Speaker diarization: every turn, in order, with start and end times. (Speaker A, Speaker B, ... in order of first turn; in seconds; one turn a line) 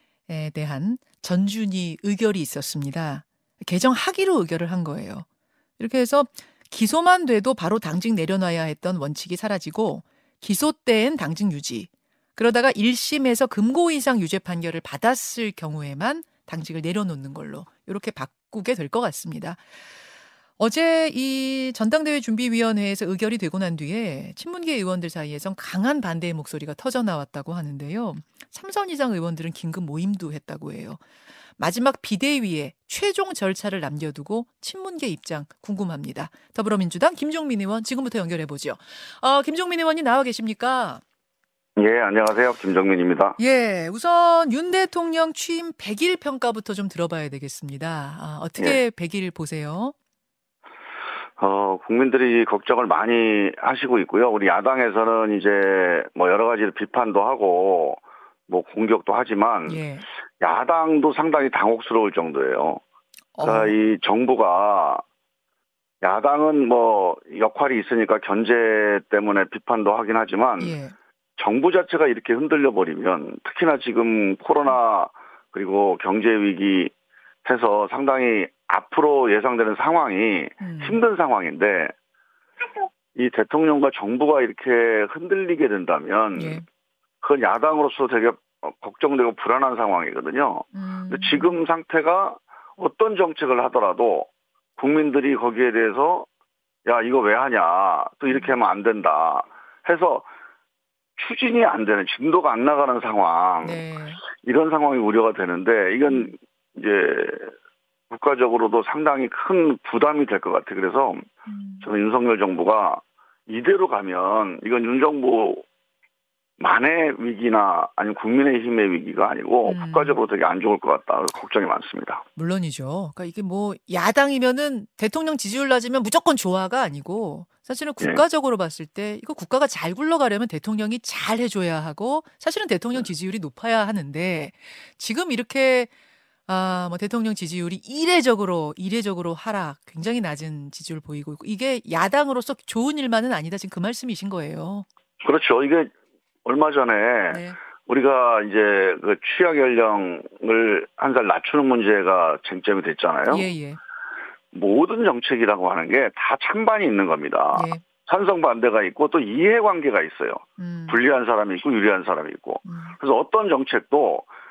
Speaker A: 0.3-5.2
Speaker A: 5.8-19.6
Speaker A: 20.6-31.0
Speaker A: 31.6-41.0
Speaker B: 41.8-43.4
Speaker A: 43.4-49.9
Speaker B: 51.4-59.8
Speaker A: 59.7-60.1
Speaker B: 60.4-62.8
Speaker A: 63.3-63.7
Speaker B: 63.4-65.0
Speaker B: 66.0-70.8
Speaker A: 70.6-70.9
Speaker B: 71.4-76.9
Speaker B: 77.4-81.9
Speaker A: 80.6-81.0
Speaker B: 83.1-86.6
Speaker A: 86.3-86.6
Speaker B: 87.2-96.3
Speaker A: 90.7-91.6
Speaker B: 96.8-100.3
Speaker B: 101.2-103.8
Speaker A: 103.6-104.2
Speaker B: 104.3-107.5
Speaker B: 108.1-111.3
Speaker A: 111.5-111.8
Speaker B: 111.8-115.6
Speaker B: 116.6-122.2
Speaker A: 119.7-120.2
Speaker A: 122.3-135.9
Speaker A: 136.5-144.8
Speaker B: 145.2-145.9
Speaker B: 146.4-153.5
Speaker A: 147.3-147.6
Speaker A: 153.3-153.8
Speaker B: 154.5-164.3
Speaker A: 157.5-157.8
Speaker A: 160.6-161.0
Speaker A: 162.6-162.9